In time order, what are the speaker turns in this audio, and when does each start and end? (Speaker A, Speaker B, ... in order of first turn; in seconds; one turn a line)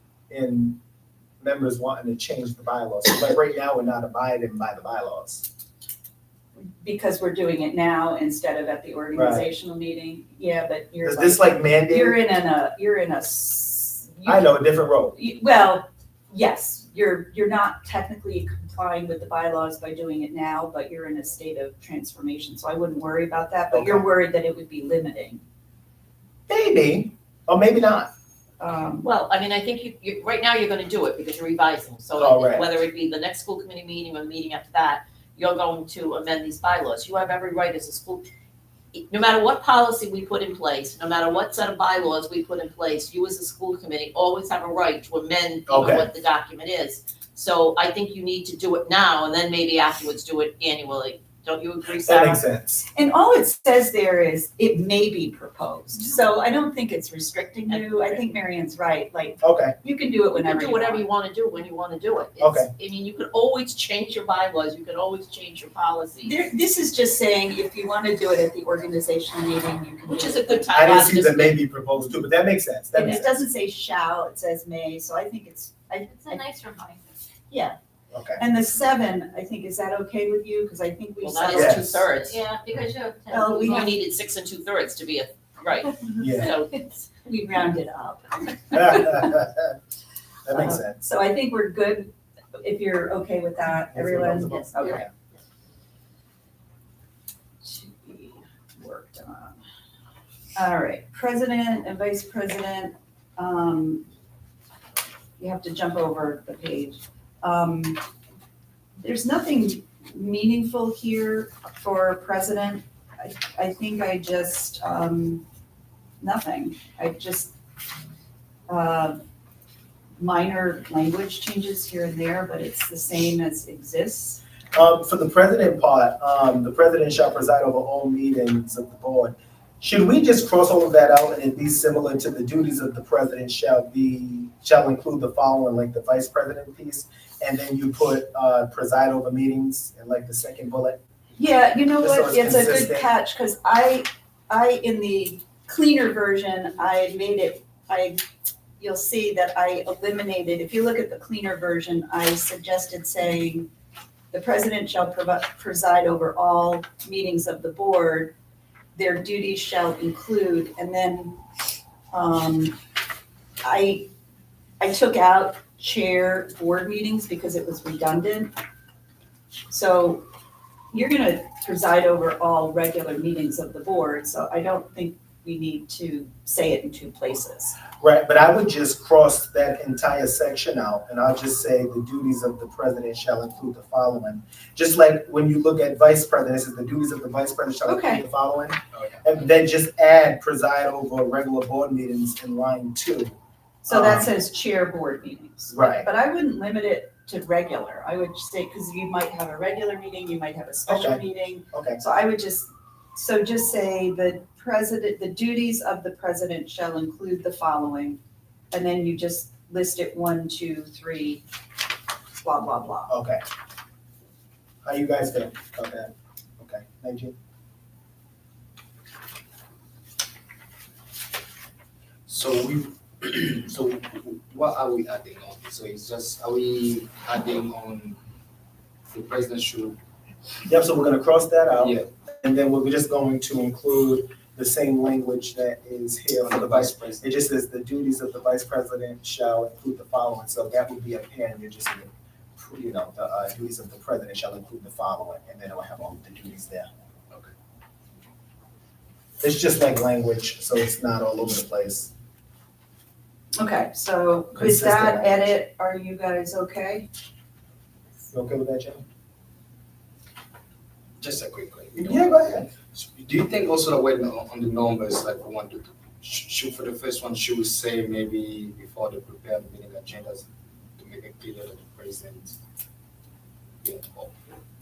Speaker A: 0.3-0.8
Speaker A: 1.4-5.5
Speaker B: 6.8-14.5
Speaker A: 9.1-9.5
Speaker A: 11.0-12.2
Speaker A: 14.2-15.2
Speaker B: 15.1-25.4
Speaker A: 23.7-24.1
Speaker A: 26.5-28.1
Speaker B: 28.6-29.1
Speaker C: 29.0-38.3
Speaker A: 32.1-32.7
Speaker C: 38.9-52.4
Speaker A: 45.7-46.1
Speaker A: 52.0-52.9
Speaker B: 52.9-61.0
Speaker C: 57.7-58.2
Speaker A: 59.4-59.7
Speaker C: 60.3-66.4
Speaker A: 62.4-62.7
Speaker B: 66.2-70.7
Speaker C: 70.1-71.6
Speaker A: 70.7-73.3
Speaker B: 72.9-76.6
Speaker D: 76.1-77.0
Speaker B: 77.5-77.8
Speaker A: 78.1-78.4
Speaker B: 78.4-82.1
Speaker C: 81.2-82.4
Speaker A: 81.5-82.0
Speaker D: 82.2-84.0
Speaker B: 83.3-83.9
Speaker C: 83.6-86.7
Speaker A: 86.2-86.6
Speaker B: 86.7-89.4
Speaker A: 88.7-89.7
Speaker A: 90.5-91.0
Speaker B: 90.5-95.0
Speaker A: 93.9-95.1
Speaker B: 97.6-99.6
Speaker B: 100.5-104.1
Speaker B: 105.4-108.0
Speaker B: 109.0-115.4
Speaker B: 116.2-117.5
Speaker B: 118.7-119.2
Speaker B: 120.2-124.4
Speaker A: 124.7-141.0
Speaker B: 141.3-148.2
Speaker A: 142.0-143.1
Speaker B: 148.8-153.7
Speaker B: 154.3-158.3
Speaker B: 158.9-161.4
Speaker B: 162.1-162.8
Speaker B: 163.6-164.1
Speaker B: 164.8-168.5
Speaker B: 169.7-170.3
Speaker B: 170.9-177.8
Speaker A: 177.9-193.3
Speaker B: 187.8-188.2
Speaker E: 188.9-189.2
Speaker B: 193.8-208.2
Speaker A: 193.9-194.3
Speaker A: 195.7-196.1
Speaker A: 200.9-202.0
Speaker B: 208.7-211.4
Speaker B: 212.4-213.1
Speaker A: 213.1-213.4
Speaker A: 214.8-217.3
Speaker E: 222.3-228.2
Speaker E: 229.1-230.0
Speaker A: 230.7-246.9
Speaker E: 231.8-232.1
Speaker E: 236.4-237.3
Speaker A: 249.4-252.1
Speaker B: 253.6-257.1
Speaker A: 254.5-255.3
Speaker A: 258.3-259.0
Speaker E: 261.2-270.4
Speaker A: 262.0-262.7
Speaker E: 271.0-272.6
Speaker E: 273.8-274.3